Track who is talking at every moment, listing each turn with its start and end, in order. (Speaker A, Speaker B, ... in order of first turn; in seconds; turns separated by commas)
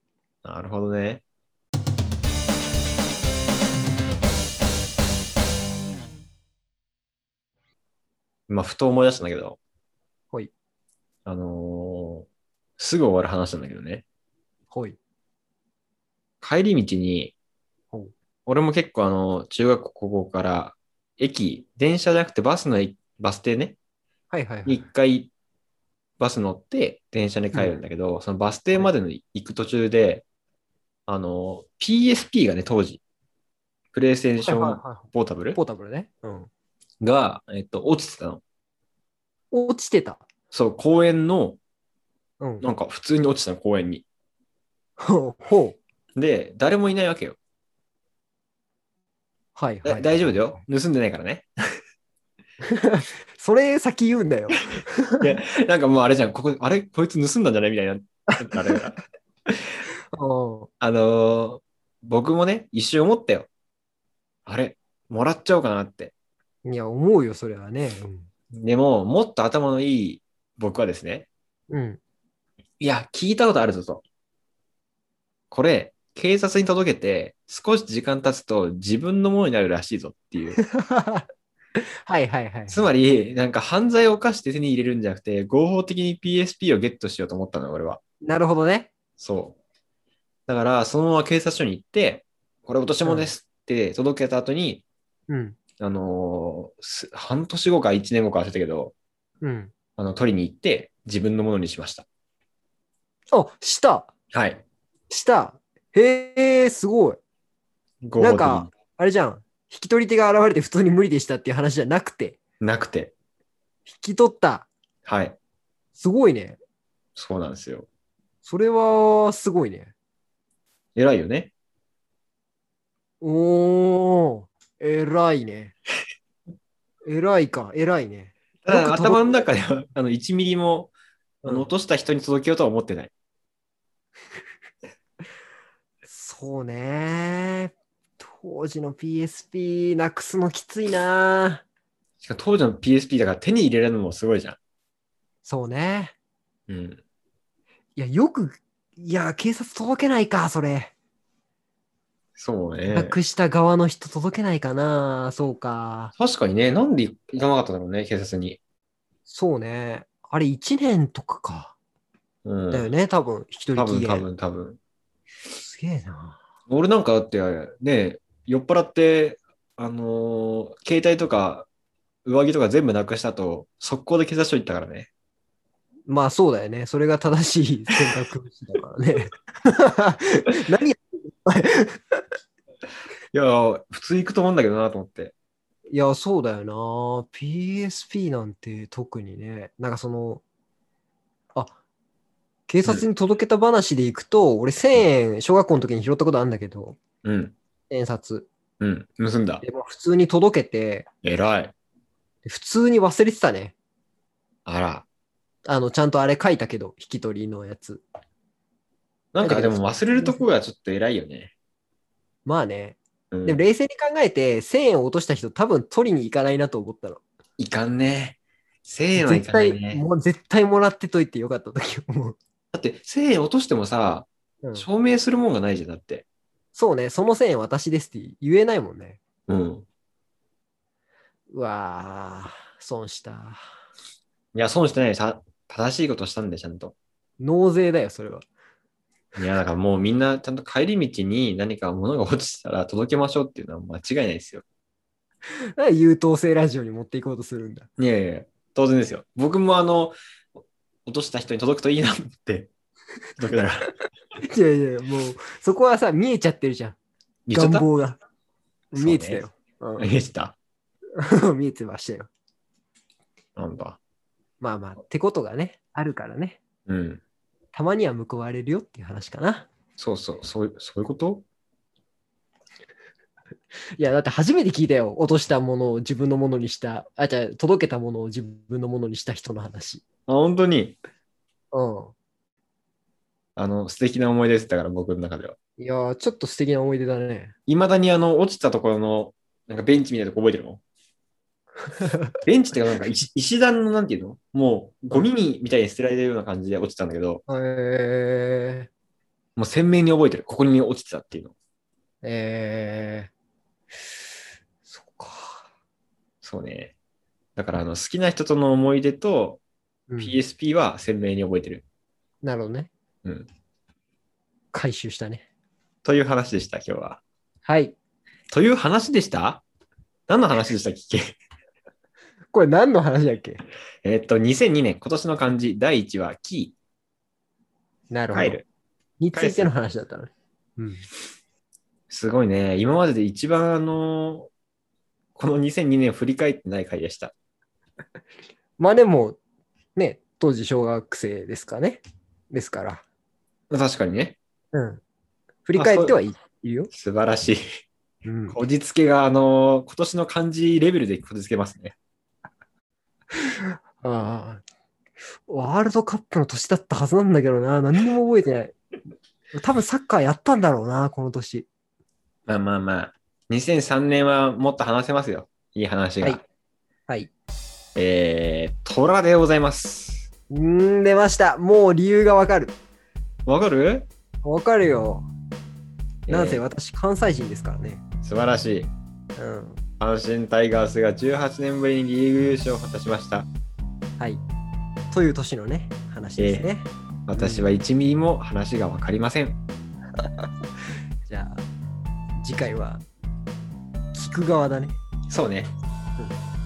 Speaker A: 0.4-1.2, Speaker A: 8.5-9.6, Speaker A: 11.3-12.3, Speaker A: 12.8-14.1, Speaker B: 14.7-15.0, Speaker A: 16.4-17.4, Speaker A: 18.5-23.8, Speaker B: 24.3-24.9, Speaker A: 24.7-25.3, Speaker A: 26.2-30.2, Speaker B: 27.5-27.8, Speaker A: 31.1-33.0, Speaker A: 33.9-35.6, Speaker B: 34.4-36.5, Speaker A: 37.0-38.4, Speaker B: 39.5-40.3, Speaker A: 40.5-41.6, Speaker A: 42.6-44.0, Speaker B: 45.0-45.8, Speaker A: 46.2-47.4, Speaker B: 49.5-50.4, Speaker A: 49.8-51.5, Speaker B: 52.6-55.2, Speaker A: 55.2-59.0, Speaker B: 58.3-58.8, Speaker B: 60.1-60.7, Speaker A: 60.8-63.5, Speaker A: 64.5-66.1, Speaker B: 66.7-68.3, Speaker A: 68.5-71.3, Speaker B: 71.7-72.0, Speaker A: 72.8-74.0, Speaker A: 75.5-80.6, Speaker B: 80.6-82.9, Speaker A: 82.7-88.0, Speaker B: 88.2-88.9, Speaker A: 89.2-89.6, Speaker A: 90.5-94.8, Speaker B: 93.0-93.3, Speaker B: 95.3-95.6, Speaker A: 95.8-99.0, Speaker B: 99.4-99.7, Speaker A: 100.0-102.1, Speaker B: 103.3-104.1, Speaker A: 104.3-104.6, Speaker B: 105.1-107.2, Speaker A: 108.0-108.7, Speaker B: 108.2-112.4, Speaker A: 112.6-113.1, Speaker B: 113.9-114.7, Speaker A: 115.1-115.4, Speaker B: 116.0-116.6, Speaker A: 117.2-117.9, Speaker B: 118.4-119.9, Speaker A: 121.0-121.5, Speaker B: 123.2-125.8, Speaker B: 127.0-129.4, Speaker A: 128.7-133.1, Speaker B: 131.4-131.7, Speaker B: 136.1-141.6, Speaker A: 142.2-144.6, Speaker B: 145.4-146.2, Speaker A: 146.7-147.0, Speaker B: 148.0-150.9, Speaker A: 152.4-153.2, Speaker B: 152.9-156.1, Speaker A: 156.2-158.6, Speaker B: 159.3-161.8, Speaker A: 162.4-162.9, Speaker B: 162.7-164.3, Speaker A: 163.8-164.8, Speaker B: 165.5-166.4, Speaker A: 166.7-171.7, Speaker A: 172.2-175.1, Speaker B: 176.1-182.2, Speaker A: 183.3-185.3, Speaker B: 185.9-190.4, Speaker B: 192.7-197.0, Speaker A: 197.2-197.6, Speaker B: 197.9-198.5, Speaker A: 198.8-199.6, Speaker B: 199.6-201.1, Speaker A: 201.2-201.7, Speaker B: 202.4-203.8, Speaker A: 204.7-205.1, Speaker B: 205.7-208.0, Speaker A: 209.3-211.5, Speaker B: 209.4-210.4, Speaker B: 212.4-217.2, Speaker A: 213.3-213.6, Speaker A: 217.6-220.0, Speaker B: 219.2-222.4, Speaker A: 222.7-226.3, Speaker B: 226.7-229.2, Speaker A: 229.5-229.9, Speaker B: 231.5-233.7, Speaker A: 234.6-236.9, Speaker B: 237.4-238.5, Speaker A: 239.4-244.7, Speaker B: 245.8-247.9, Speaker A: 248.0-250.2, Speaker A: 251.1-252.7, Speaker A: 253.4-253.9, Speaker B: 254.4-257.0, Speaker A: 257.5-257.9, Speaker B: 257.5-258.2, Speaker B: 258.9-260.1, Speaker A: 258.9-259.4, Speaker A: 260.0-260.6, Speaker B: 261.2-262.3, Speaker A: 263.6-264.0, Speaker B: 264.6-266.6, Speaker A: 266.9-267.2, Speaker B: 267.7-269.7, Speaker A: 270.0-271.4, Speaker B: 274.0-280.1, Speaker A: 280.3-281.0, Speaker B: 281.7-282.1, Speaker A: 283.6-285.6, Speaker B: 285.8-287.6, Speaker A: 287.7-290.8, Speaker B: 291.9-292.3, Speaker A: 292.5-297.4, Speaker B: 297.5-298.9, Speaker A: 299.6-301.5, Speaker B: 302.2-303.3, Speaker B: 304.9-305.6, Speaker A: 306.4-306.9, Speaker A: 307.6-309.6, Speaker B: 310.1-310.4, Speaker A: 310.2-311.8, Speaker B: 312.4-312.9, Speaker B: 314.7-315.4, Speaker A: 316.1-317.2, Speaker B: 317.6-318.0, Speaker A: 318.5-319.6, Speaker A: 320.3-321.4, Speaker B: 322.5-323.6, Speaker A: 324.0-326.8, Speaker B: 328.1-328.6, Speaker A: 328.3-328.6, Speaker B: 329.2-331.1, Speaker A: 329.3-329.7, Speaker A: 332.1-334.5, Speaker A: 335.4-337.3, Speaker B: 338.8-339.4, Speaker B: 340.0-343.0, Speaker A: 343.7-344.4, Speaker B: 344.7-345.0, Speaker B: 345.7-346.9, Speaker A: 345.8-346.2, Speaker A: 346.9-347.6, Speaker B: 348.2-348.6, Speaker A: 348.5-351.9, Speaker B: 353.5-354.6, Speaker B: 355.5-358.8, Speaker B: 359.6-361.7, Speaker A: 362.5-366.4, Speaker A: 367.9-370.3, Speaker B: 370.5-372.8, Speaker A: 373.5-374.1, Speaker B: 374.4-375.3, Speaker A: 376.3-376.6, Speaker B: 376.3-378.0, Speaker A: 378.2-378.9, Speaker B: 379.4-379.8, Speaker A: 380.0-383.5, Speaker B: 385.1-387.7, Speaker A: 386.4-386.7, Speaker A: 387.3-389.6, Speaker B: 390.2-390.5, Speaker B: 391.3-391.6, Speaker B: 392.4-393.0, Speaker B: 394.1-395.0, Speaker A: 395.3-395.7